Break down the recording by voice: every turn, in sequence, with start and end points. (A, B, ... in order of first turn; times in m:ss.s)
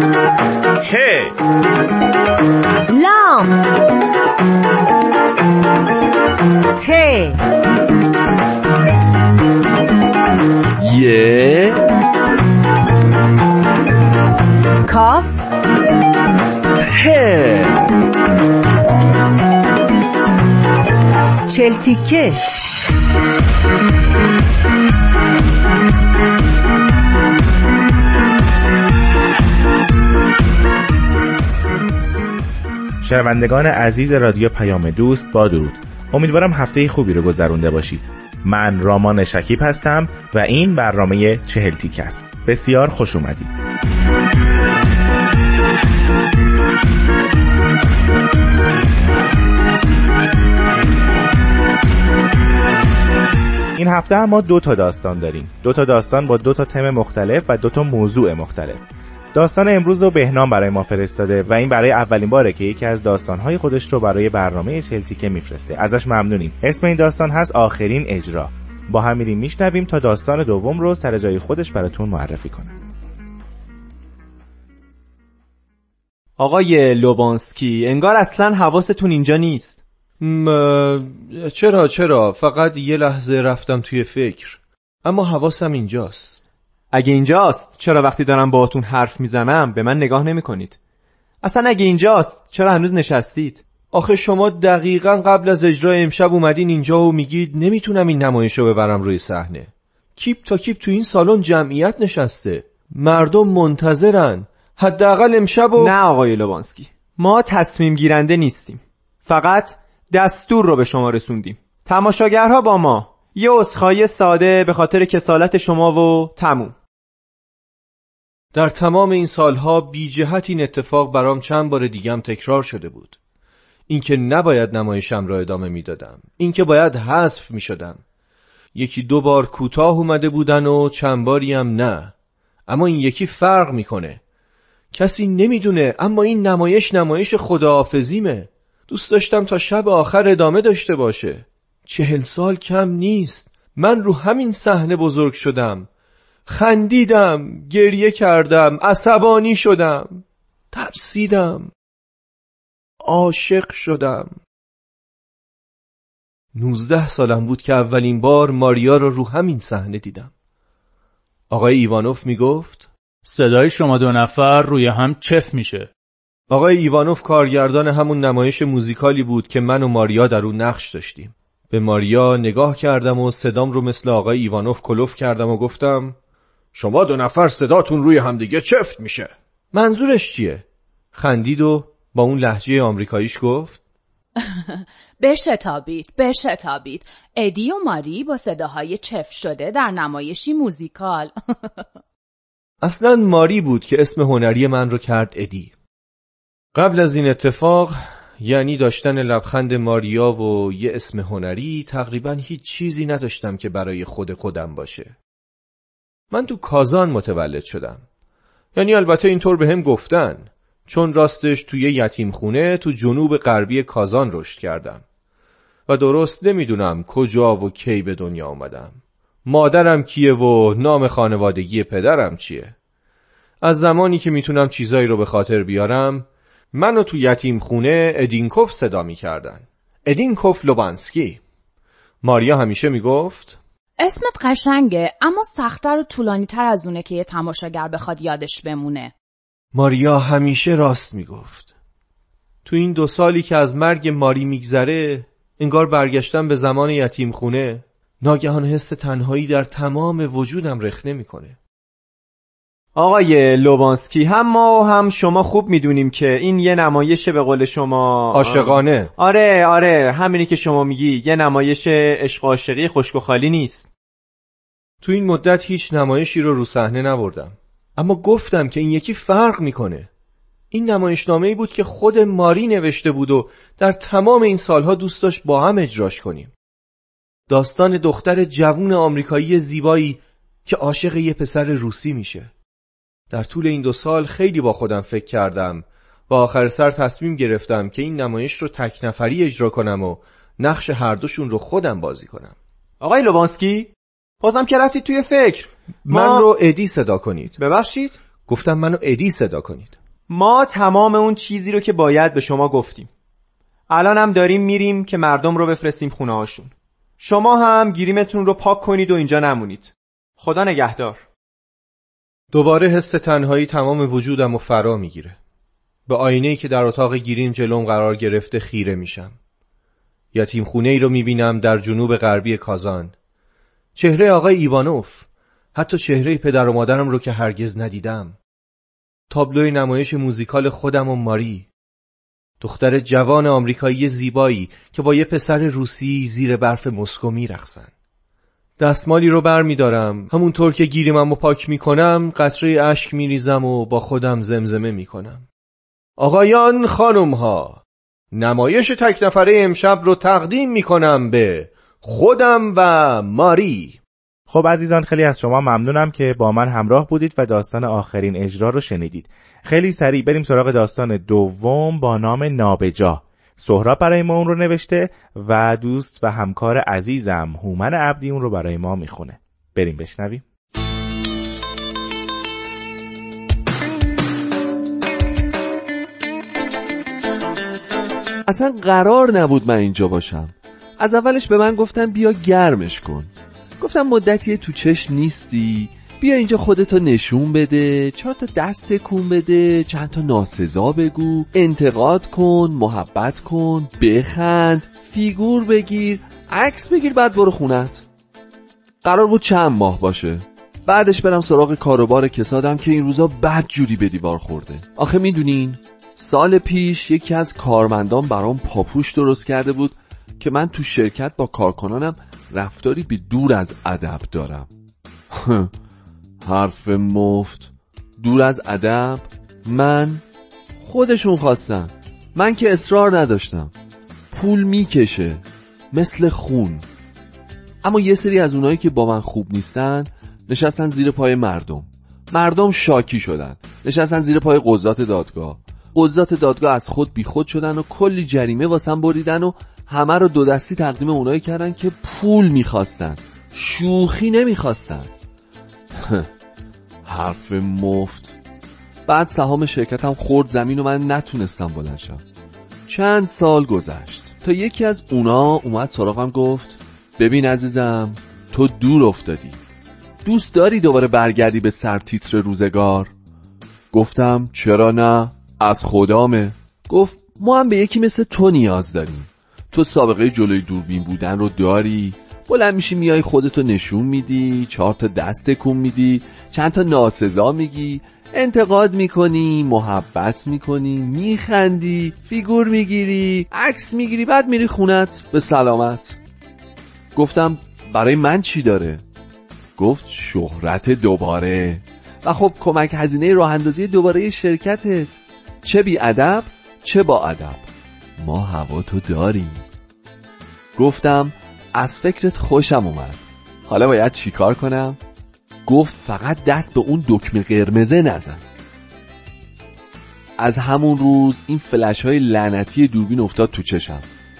0:02.9-0:03.5 A
0:06.8-0:07.4 A
0:10.8-0:11.8 B
0:14.8-0:15.4 A
0:16.8-0:17.8 B
0:21.5-0:22.4 A
0:33.0-0:43.5 C
0:53.8-1:12.7 C
1:16.4-1:19.8 D
1:20.2-1:26.4 E
1:26.9-1:30.8 D
1:31.4-1:33.6 D
1:33.9-1:46.0 E
1:45.8-1:56.8 D
1:58.5-2:03.2 E
2:03.9-2:08.0 E
2:08.7-2:12.1 E
2:12.7-2:14.2 E
2:14.9-2:25.9 E
2:26.5-2:31.7 E
2:33.0-2:34.3 E
2:36.5-2:40.3 E
2:41.5-2:42.9 E
2:43.2-2:45.9 F
2:46.5-2:56.2 E
2:56.7-3:03.8 E
3:04.4-3:11.8 G
3:12.8-3:15.7 E
3:16.7-3:25.1 E
3:26.3-3:28.0 E
3:28.7-3:35.0 E
3:35.9-3:42.7 E
3:43.6-3:51.4 E
3:52.2-3:53.6 E
3:54.0-3:59.1 G
3:59.7-4:01.7 E
4:02.6-4:11.6 E
4:12.9-4:23.9 D
4:18.3-4:19.1 E
4:25.0-4:30.1 E
4:30.7-4:36.5 E
4:37.5-4:42.5 E
4:43.3-4:52.6 E
4:53.0-4:56.5 D
4:56.1-4:57.6 E
4:57.6-4:58.1 D
4:58.4-4:59.9 E
5:00.3-5:03.1 D
5:03.9-5:11.2 D
5:12.5-5:15.4 E
5:16.1-5:19.4 E
5:20.3-5:23.1 E
5:24.0-5:28.4 E
5:29.3-5:31.7 E
5:32.6-5:37.9 E
5:38.8-5:45.4 E
5:46.2-5:54.0 E
5:54.5-6:10.4 C
6:18.5-6:38.0 B
6:39.0-6:54.7 B
6:55.3-6:55.7 B
6:56.4-7:00.2 B
7:00.8-7:03.7 B
7:04.3-7:06.8 B
7:07.8-7:25.1 B
7:25.9-7:26.3 B
7:27.0-7:28.4 B
7:29.0-7:32.2 B
7:32.8-7:39.6 B
7:40.2-7:43.1 B
7:43.9-8:06.2 B
8:07.1-8:09.0 B
8:09.8-8:19.6 B
8:20.7-8:25.0 B
8:25.6-8:28.4 B
8:30.4-8:34.0 B